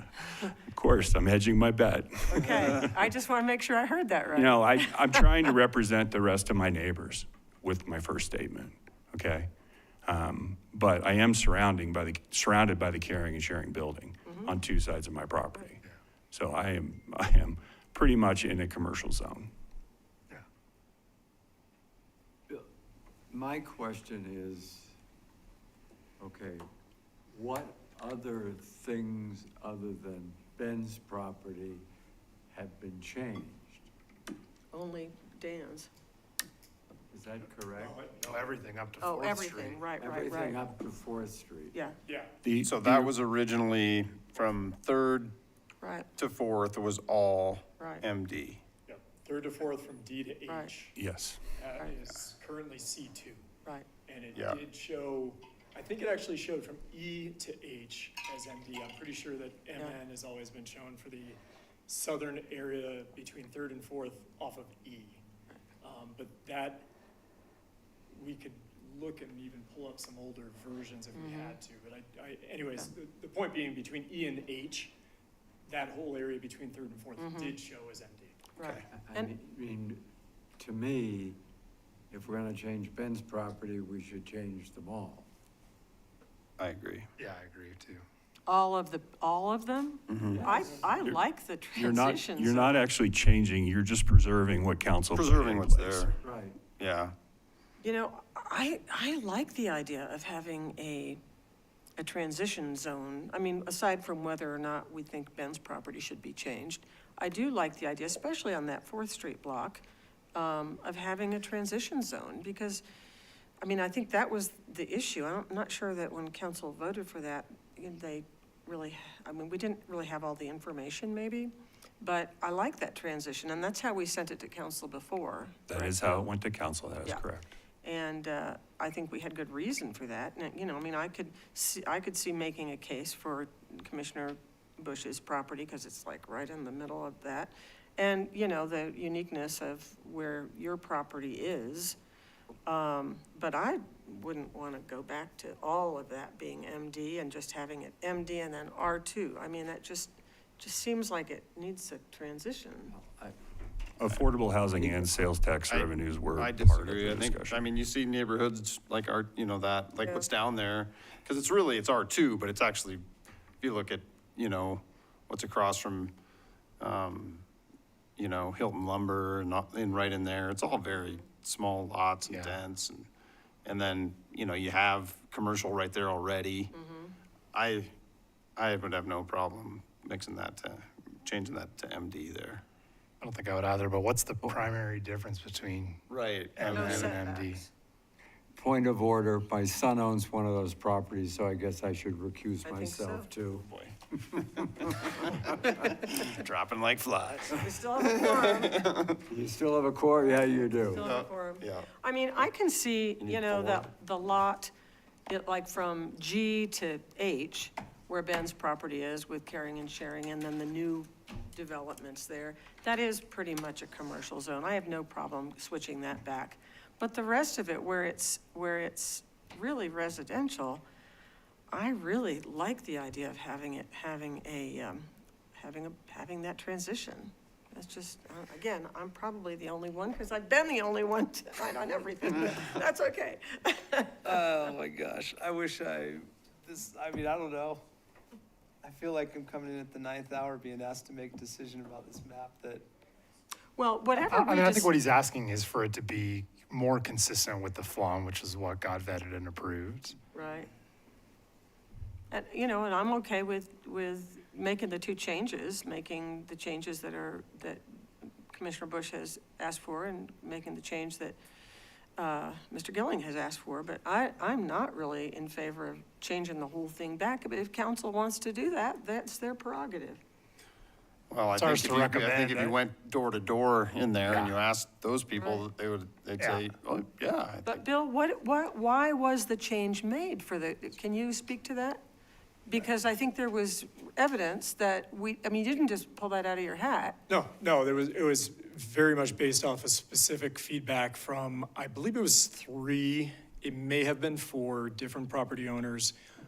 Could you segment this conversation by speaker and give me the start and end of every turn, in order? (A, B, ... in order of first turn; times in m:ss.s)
0:00.7-0:02.9 A
0:02.3-0:05.3 B
0:04.4-0:09.5 A
0:10.0-0:15.8 A
0:14.3-0:14.5 B
0:16.3-0:19.5 A
0:23.3-0:24.9 C
0:26.2-0:26.7 C
0:27.3-0:31.8 C
0:32.5-0:33.9 C
0:34.7-0:35.9 B
0:37.1-0:38.0 C
0:37.8-0:38.2 D
0:38.2-0:39.8 E
0:39.0-0:40.6 B
0:40.0-0:41.8 C
0:41.7-0:42.0 B
0:42.1-0:42.4 D
0:42.4-0:43.1 A
0:42.6-0:45.4 F
0:45.8-0:46.1 B
0:46.2-0:48.6 F
0:47.8-0:48.0 B
0:48.9-0:51.0 D
0:51.0-0:51.4 A
0:51.6-0:53.5 D
0:54.0-1:05.2 D
0:54.4-0:54.6 F
1:05.8-1:06.9 D
1:08.1-1:14.9 D
1:11.2-1:11.6 B
1:15.7-1:18.5 D
1:17.2-1:17.6 B
1:18.6-1:19.3 B
1:18.9-1:20.1 C
1:20.6-1:21.4 C
1:22.1-1:25.3 C
1:26.6-1:27.1 F
1:27.2-1:28.0 E
1:28.5-1:32.8 B
1:30.1-1:30.5 F
1:30.3-1:30.9 C
1:31.8-1:36.1 A
1:35.1-1:36.2 F
1:36.2-1:36.6 C
1:36.8-1:37.1 F
1:37.8-1:41.2 B
1:42.0-1:49.8 B
1:50.4-1:52.8 B
1:53.6-2:06.3 B
2:05.7-2:07.5 A
2:07.8-2:22.0 B
2:22.7-2:33.0 B
2:32.9-2:33.4 C
2:34.0-2:37.6 A
2:34.7-2:35.0 C
2:35.7-2:43.0 F
2:40.0-2:40.3 B
2:43.6-2:46.1 F
2:46.8-2:47.4 F
2:48.2-2:53.1 F
2:50.9-2:51.2 B
2:52.2-2:52.6 E
2:53.6-2:56.7 F
2:56.7-2:57.2 B
2:57.5-2:57.9 F
2:58.6-3:02.6 F
3:03.2-3:07.6 E
3:06.1-3:07.2 F
3:06.7-3:07.7 B
3:08.6-3:13.6 C
3:12.6-3:13.3 B
3:13.5-3:13.9 F
3:14.3-3:14.9 C
3:15.3-3:19.2 F
3:17.6-3:18.8 B
3:19.3-3:21.0 C
3:20.8-3:24.7 B
3:21.0-3:21.9 F
3:23.2-3:23.9 F
3:25.3-3:40.8 B
3:41.7-3:54.4 B
3:54.2-3:57.8 G
3:58.8-4:02.9 G
4:03.8-4:04.9 B
4:04.2-4:10.2 E
4:10.3-4:10.7 B
4:12.3-4:17.8 B
4:18.5-4:21.4 B
4:22.2-4:30.2 B
4:31.3-4:37.8 F
4:31.6-4:32.8 E
4:34.3-4:34.5 E
4:36.4-4:36.6 E
4:37.7-4:42.0 B
4:42.7-4:47.2 B
4:47.3-4:56.2 D